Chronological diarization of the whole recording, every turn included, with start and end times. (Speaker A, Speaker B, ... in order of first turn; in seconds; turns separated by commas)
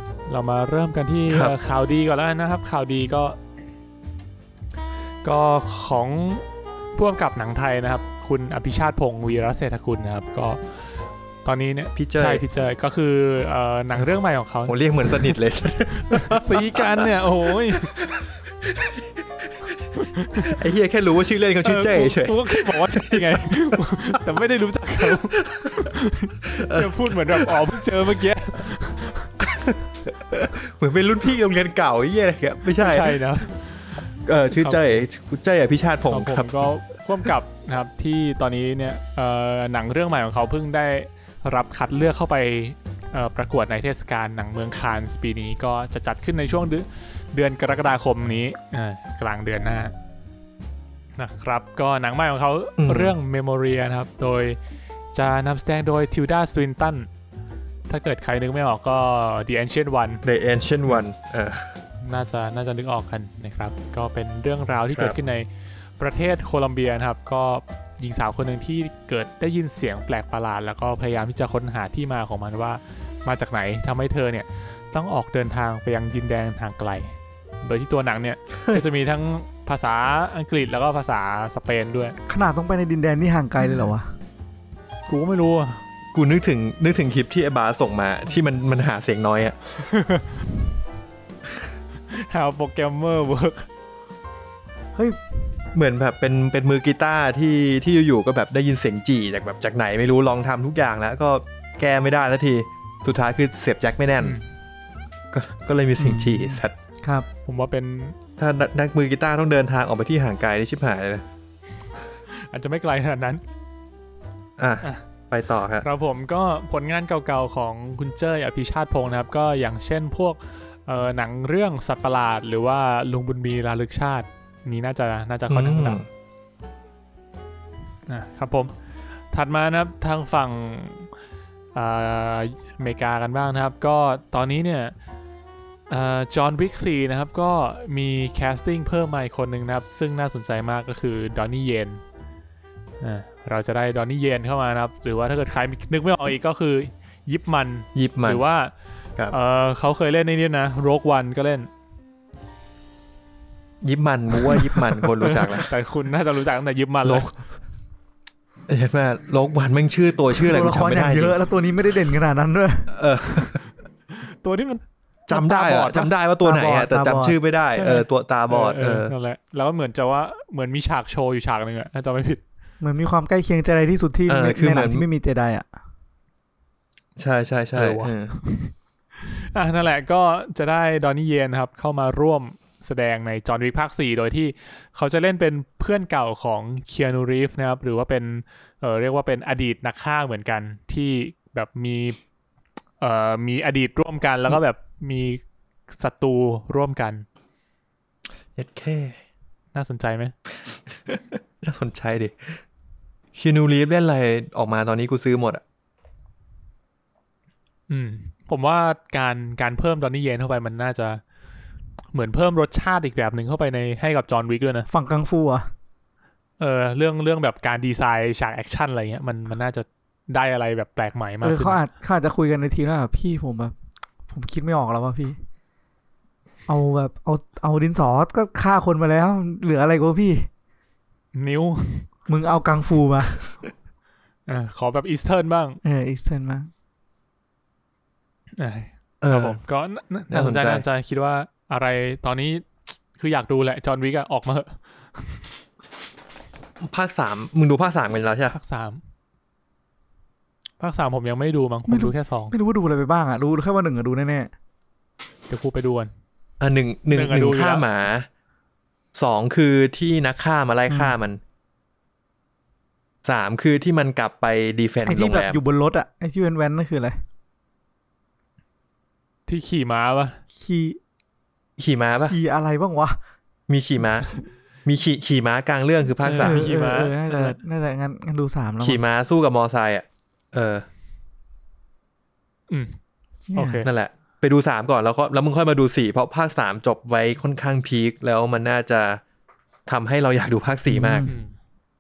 Speaker A: 0.3-3.4, Speaker B: 1.3-1.6, Speaker A: 5.2-6.4, Speaker A: 7.0-10.6, Speaker A: 11.4-15.3, Speaker B: 12.0-12.4, Speaker B: 14.7-17.1, Speaker A: 15.9-18.0, Speaker B: 17.7-19.7, Speaker A: 20.0-20.6, Speaker B: 20.4-23.8, Speaker A: 21.6-29.3, Speaker B: 25.0-25.9, Speaker B: 26.5-27.6, Speaker B: 29.4-33.2, Speaker A: 32.7-34.1, Speaker B: 34.2-36.6, Speaker A: 34.6-34.9, Speaker A: 36.1-49.9, Speaker A: 51.2-54.6, Speaker B: 52.8-53.2, Speaker A: 55.1-57.1, Speaker A: 57.9-60.2, Speaker B: 60.2-61.7, Speaker A: 62.0-65.5, Speaker A: 66.0-82.2, Speaker C: 82.3-84.1, Speaker A: 85.1-85.8, Speaker B: 86.1-89.6, Speaker A: 89.8-90.4, Speaker A: 92.1-93.7, Speaker B: 95.7-104.4, Speaker A: 104.2-104.5, Speaker B: 105.3-106.7, Speaker C: 106.0-107.3, Speaker A: 107.5-108.2, Speaker B: 108.4-111.2, Speaker A: 112.3-113.4, Speaker B: 114.6-115.8, Speaker A: 115.8-126.0, Speaker B: 125.5-126.1, Speaker A: 128.1-128.7, Speaker A: 129.3-131.1, Speaker A: 131.8-134.9, Speaker A: 135.9-142.0, Speaker A: 143.0-148.7, Speaker B: 147.9-148.4, Speaker A: 149.3-151.7, Speaker B: 153.8-155.7, Speaker A: 154.4-157.3, Speaker B: 158.7-161.4, Speaker C: 160.4-162.9, Speaker B: 162.9-163.6, Speaker A: 164.1-166.1, Speaker B: 165.3-169.1, Speaker C: 166.4-167.4, Speaker A: 167.8-172.4, Speaker C: 172.8-175.7, Speaker B: 174.3-175.1, Speaker B: 177.2-178.4, Speaker A: 177.8-192.2, Speaker A: 193.0-197.3, Speaker B: 198.6-199.2, Speaker A: 199.7-200.3, Speaker B: 200.7-202.6, Speaker B: 203.3-205.6, Speaker A: 207.9-211.2, Speaker A: 212.1-214.9, Speaker C: 214.9-215.7, Speaker A: 216.6-221.8, Speaker C: 221.4-223.7, Speaker C: 224.3-225.4, Speaker C: 226.7-230.5, Speaker A: 231.3-232.1, Speaker C: 232.3-233.4, Speaker A: 234.5-235.8, Speaker C: 235.8-236.7, Speaker A: 238.6-245.4, Speaker B: 239.2-239.6, Speaker B: 240.3-240.8, Speaker B: 246.8-248.5, Speaker A: 248.5-249.0, Speaker A: 250.8-252.5, Speaker C: 251.9-254.5, Speaker A: 255.5-256.1, Speaker B: 256.6-258.3, Speaker A: 257.1-257.9, Speaker B: 259.1-261.4, Speaker C: 260.9-261.2, Speaker B: 263.2-265.6, Speaker C: 265.1-267.2, Speaker A: 269.5-270.4, Speaker C: 270.6-271.0, Speaker B: 271.8-272.4, Speaker C: 272.2-273.2, Speaker B: 273.7-274.3, Speaker B: 274.9-276.6, Speaker A: 276.2-277.5, Speaker C: 276.4-279.0, Speaker B: 278.8-280.9, Speaker A: 282.7-283.0, Speaker C: 283.5-283.8, Speaker A: 283.6-283.9, Speaker B: 283.8-289.2, Speaker B: 289.9-291.3, Speaker C: 290.9-291.4, Speaker A: 291.3-291.5